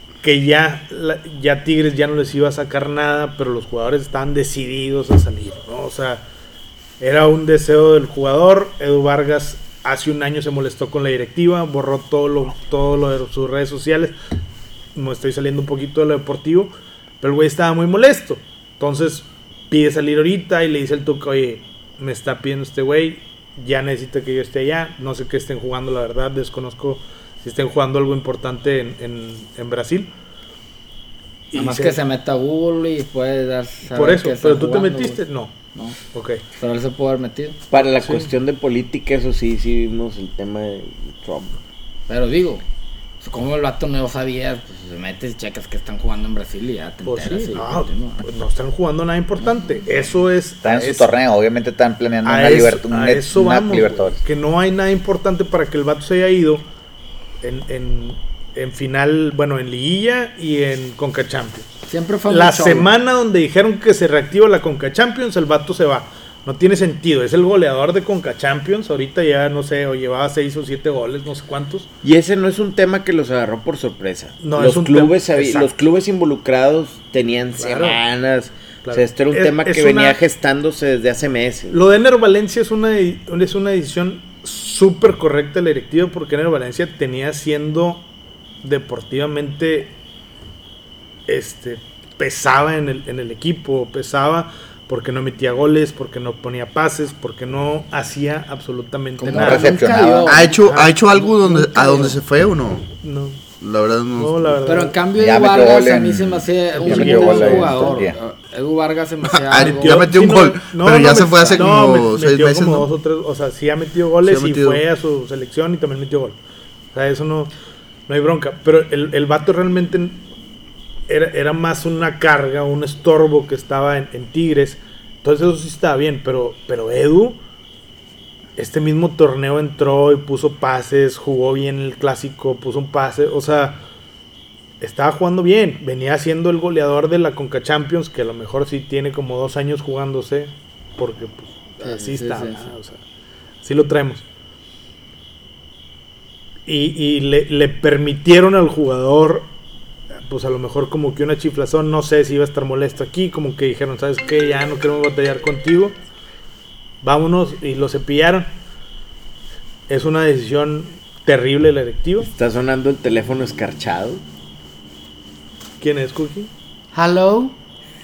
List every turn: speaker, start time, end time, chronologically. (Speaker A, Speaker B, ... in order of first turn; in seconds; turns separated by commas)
Speaker A: 0.2-6.2, Speaker A: 7.0-14.1, Speaker A: 14.9-30.1, Speaker A: 31.5-32.0, Speaker B: 31.5-35.2, Speaker A: 33.9-35.5, Speaker A: 36.1-36.4, Speaker B: 36.6-37.6, Speaker C: 37.7-41.6, Speaker A: 38.0-38.3, Speaker B: 42.1-42.6, Speaker B: 43.2-48.2, Speaker A: 47.0-51.1, Speaker D: 50.6-54.2, Speaker A: 52.2-56.6, Speaker A: 57.4-61.7, Speaker B: 61.9-62.9, Speaker A: 62.3-71.9, Speaker C: 72.0-81.8, Speaker A: 74.4-75.7, Speaker A: 77.6-78.0, Speaker A: 78.8-80.2, Speaker A: 81.7-88.0, Speaker A: 88.6-89.9, Speaker A: 91.3-99.9, Speaker B: 99.2-100.6, Speaker D: 99.3-100.4, Speaker E: 100.2-102.9, Speaker A: 100.6-102.1, Speaker B: 101.5-102.1, Speaker A: 103.0-103.4, Speaker E: 103.6-104.6, Speaker A: 104.2-105.0, Speaker B: 104.6-110.0, Speaker D: 105.2-108.2, Speaker A: 106.7-107.9, Speaker E: 109.3-112.9, Speaker A: 109.6-116.4, Speaker B: 111.4-111.7, Speaker E: 114.2-114.8, Speaker A: 116.9-117.5, Speaker A: 118.1-120.2, Speaker A: 121.1-127.4, Speaker A: 128.6-133.8, Speaker A: 134.8-143.0, Speaker B: 141.8-142.7, Speaker A: 143.6-144.2, Speaker A: 146.7-149.5, Speaker A: 150.3-155.9, Speaker A: 157.0-158.5, Speaker A: 159.9-162.3, Speaker C: 162.3-164.2, Speaker A: 165.8-166.5, Speaker B: 166.9-167.5